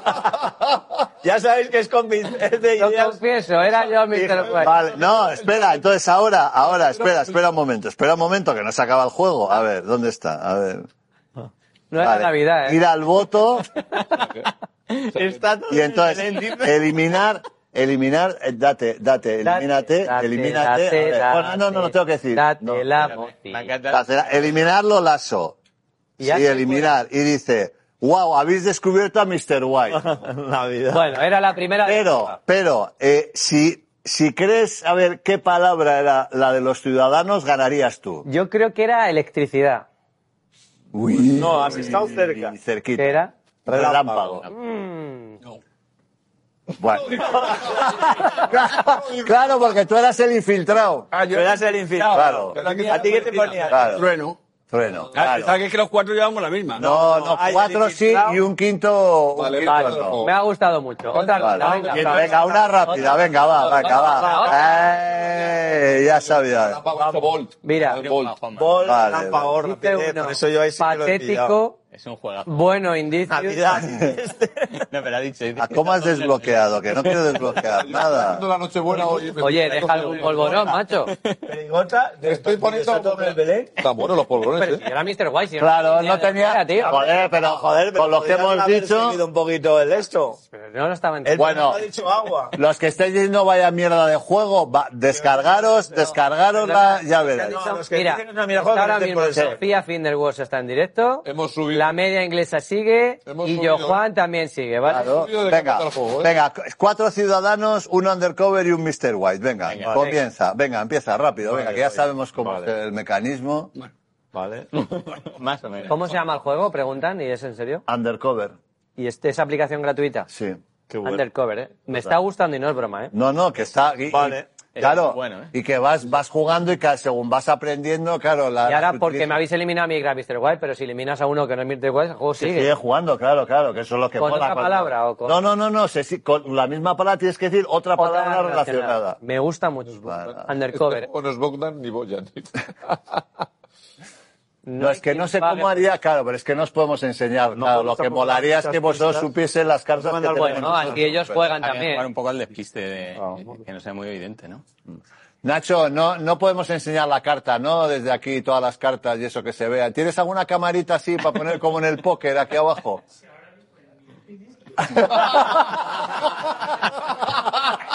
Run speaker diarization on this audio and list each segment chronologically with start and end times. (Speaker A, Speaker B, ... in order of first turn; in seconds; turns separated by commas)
Speaker A: 1.2-3.2, Speaker B: 2.8-4.8, Speaker A: 4.1-4.8, Speaker C: 4.6-10.9, Speaker D: 7.0-7.3, Speaker B: 11.9-12.8, Speaker C: 12.0-13.7, Speaker D: 14.1-14.5, Speaker D: 15.1-15.4, Speaker A: 15.1-16.7, Speaker C: 15.7-22.9, Speaker B: 19.4-23.7, Speaker E: 23.0-24.5, Speaker C: 23.9-25.6, Speaker B: 26.2-26.9, Speaker C: 26.2-30.1, Speaker A: 29.9-31.1, Speaker B: 30.9-32.4, Speaker C: 31.9-38.3, Speaker B: 38.2-39.9, Speaker C: 40.9-44.5, Speaker A: 41.3-42.6, Speaker B: 43.0-43.3, Speaker A: 43.7-44.5, Speaker B: 44.5-45.4, Speaker C: 46.8-51.1, Speaker D: 47.1-49.3, Speaker F: 51.1-54.4, Speaker A: 51.3-54.1, Speaker C: 52.1-52.6, Speaker C: 53.7-54.1, Speaker C: 54.7-55.6, Speaker F: 55.1-56.9, Speaker C: 56.8-60.2, Speaker A: 56.8-58.4, Speaker D: 59.4-60.3, Speaker B: 59.6-64.9, Speaker D: 61.2-62.2, Speaker C: 61.4-66.8, Speaker F: 61.6-62.8, Speaker A: 63.6-64.8, Speaker D: 66.3-68.4, Speaker A: 67.0-67.3, Speaker B: 67.6-68.0, Speaker E: 67.9-68.9, Speaker A: 68.5-71.6, Speaker C: 68.8-69.5, Speaker B: 69.6-71.8, Speaker E: 71.9-72.5, Speaker B: 72.5-73.9, Speaker A: 73.3-74.8, Speaker C: 73.8-74.1, Speaker E: 74.7-77.4, Speaker C: 75.6-78.5, Speaker D: 77.6-80.7, Speaker A: 78.9-79.2, Speaker B: 79.4-81.1, Speaker E: 80.9-81.4, Speaker A: 81.5-83.8, Speaker D: 82.2-84.9, Speaker B: 84.5-87.0, Speaker C: 85.6-89.2, Speaker A: 86.8-90.4, Speaker B: 90.5-91.6, Speaker A: 91.2-92.6, Speaker C: 91.4-91.8, Speaker C: 92.5-97.6, Speaker A: 95.1-96.1, Speaker B: 96.6-105.2, Speaker A: 97.2-99.6, Speaker D: 101.2-101.9, Speaker D: 103.3-104.0, Speaker C: 104.9-113.7, Speaker D: 104.9-106.3, Speaker E: 109.7-110.0, Speaker A: 109.8-110.1, Speaker A: 111.5-112.7, Speaker A: 114.3-114.7, Speaker E: 114.8-116.1, Speaker B: 115.9-117.8, Speaker C: 117.9-118.6, Speaker B: 119.0-120.3, Speaker C: 120.3-120.6, Speaker A: 120.9-121.2, Speaker B: 121.0-123.1, Speaker C: 121.9-122.2, Speaker C: 123.1-129.4, Speaker A: 124.1-124.5, Speaker E: 124.8-125.5, Speaker B: 128.7-132.7, Speaker C: 132.4-139.2, Speaker B: 134.2-135.4, Speaker B: 138.0-141.1, Speaker D: 140.0-143.2, Speaker C: 140.1-140.5, Speaker B: 144.7-145.9, Speaker C: 144.8-151.4, Speaker A: 147.5-149.3, Speaker A: 149.9-151.1, Speaker B: 150.3-152.1, Speaker E: 151.6-154.6, Speaker A: 153.2-153.6, Speaker C: 155.4-163.0, Speaker C: 164.8-166.1